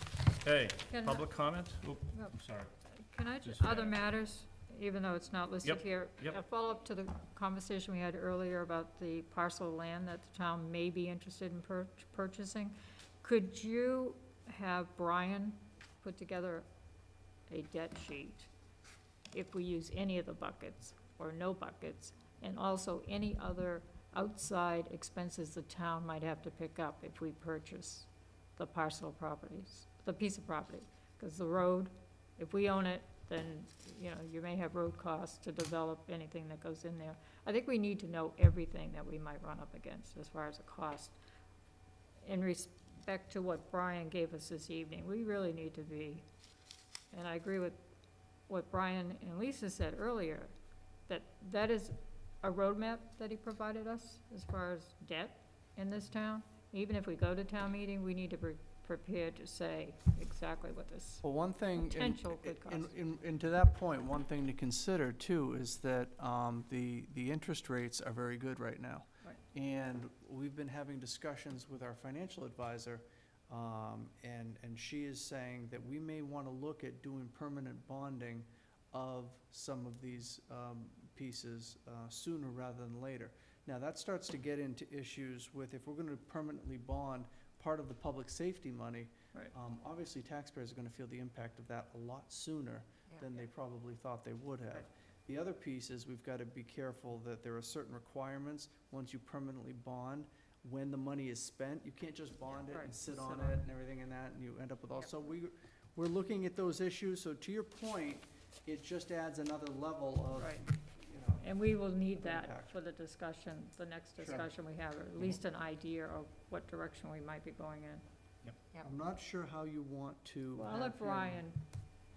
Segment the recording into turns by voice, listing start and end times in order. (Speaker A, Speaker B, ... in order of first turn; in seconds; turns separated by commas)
Speaker A: 0.3-2.7, Speaker B: 0.9-1.3, Speaker B: 3.0-16.7, Speaker A: 3.4-4.0, Speaker A: 5.6-6.4, Speaker B: 17.5-18.5, Speaker B: 19.3-41.2, Speaker B: 42.2-46.2, Speaker B: 47.1-47.8, Speaker B: 48.5-50.5, Speaker B: 51.1-63.0, Speaker C: 61.2-112.8, Speaker B: 102.7-103.6, Speaker B: 110.4-110.6, Speaker B: 111.4-118.0, Speaker C: 114.2-114.5, Speaker C: 118.8-121.5, Speaker B: 120.6-121.6